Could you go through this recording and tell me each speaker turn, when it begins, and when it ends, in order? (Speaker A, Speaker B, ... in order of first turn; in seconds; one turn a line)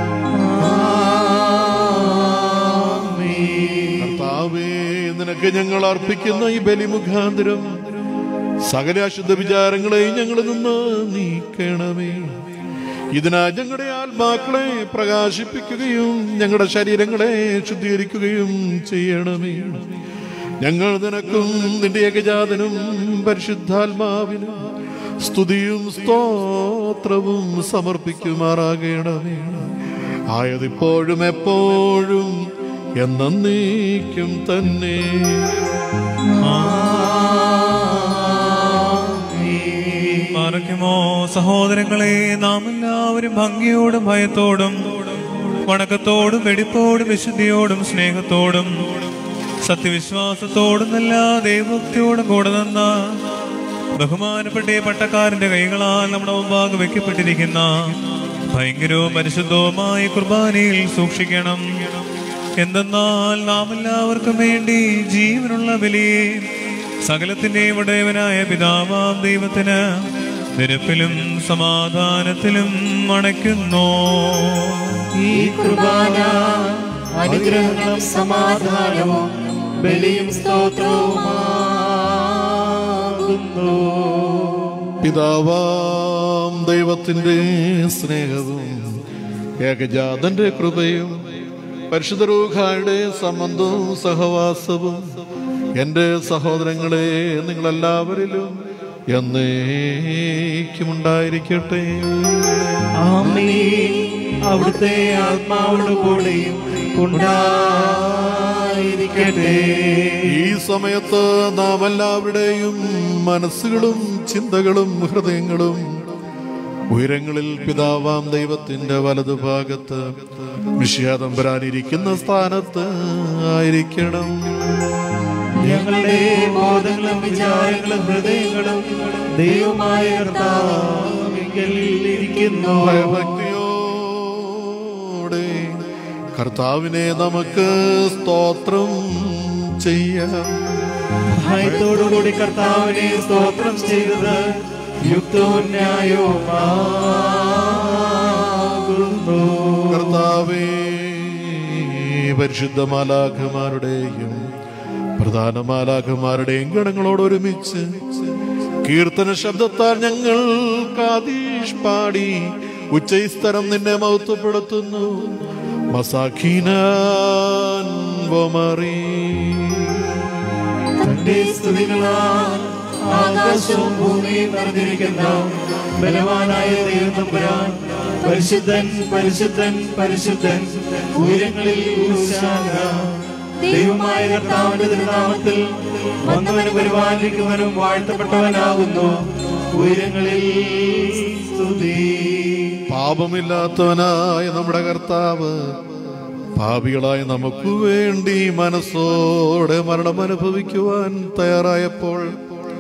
Speaker A: 0.4-4.0
Speaker B: 4.0-7.7
Speaker B: 8.7-12.3
Speaker B: 13.1-19.8
Speaker B: 20.6-24.5
Speaker B: 25.2-29.6
Speaker B: 30.3-32.3
Speaker B: 33.0-35.6
Speaker A: 36.3-40.3
Speaker C: 36.4-37.0
Speaker C: 40.3-44.8
Speaker C: 45.7-48.7
Speaker C: 49.6-53.1
Speaker C: 54.0-58.0
Speaker C: 58.5-62.0
Speaker C: 62.6-66.5
Speaker C: 67.0-69.8
Speaker C: 70.6-75.0
Speaker A: 75.2-84.9
Speaker B: 85.0-88.8
Speaker B: 89.6-91.1
Speaker B: 91.9-95.0
Speaker B: 95.8-98.5
Speaker B: 99.1-102.9
Speaker A: 103.0-110.3
Speaker B: 110.3-115.8
Speaker B: 116.9-120.0
Speaker B: 120.8-125.0
Speaker A: 125.6-133.3
Speaker B: 132.8-135.8
Speaker B: 136.3-140.6
Speaker A: 141.3-144.5
Speaker A: 145.0-150.2
Speaker B: 149.9-154.4
Speaker B: 155.2-157.9
Speaker B: 158.8-162.4
Speaker B: 162.9-165.4
Speaker B: 165.9-170.2
Speaker A: 171.0-183.0
Speaker A: 183.7-189.2
Speaker A: 189.7-192.8
Speaker B: 192.9-195.6
Speaker B: 196.6-202.3